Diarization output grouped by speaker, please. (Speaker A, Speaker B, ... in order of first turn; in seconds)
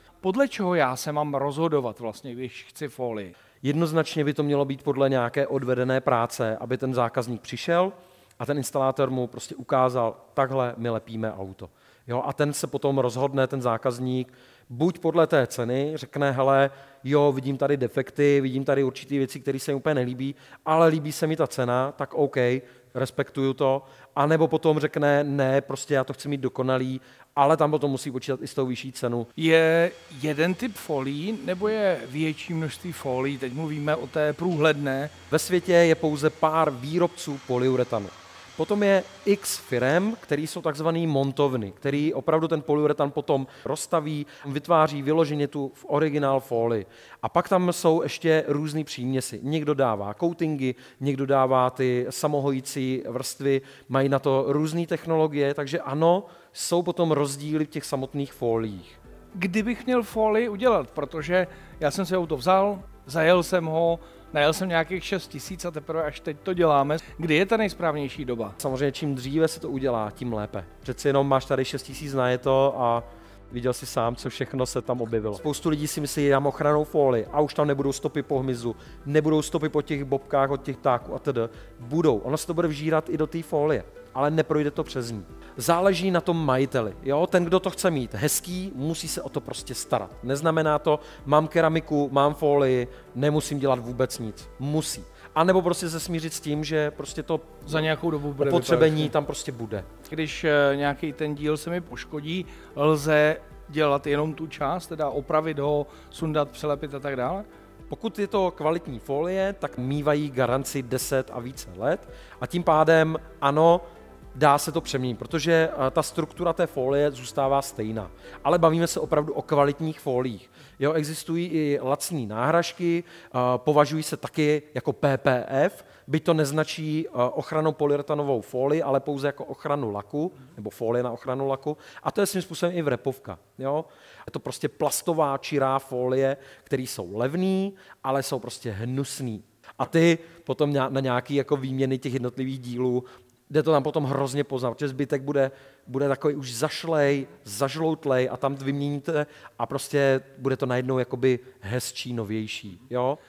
Speaker A: 0.2-3.3, 29.4-35.1, 59.3-68.6, 97.7-99.1, 100.1-107.5
Speaker B: 3.6-29.3, 35.3-59.0, 68.6-99.9, 107.9-113.8, 114.3-153.2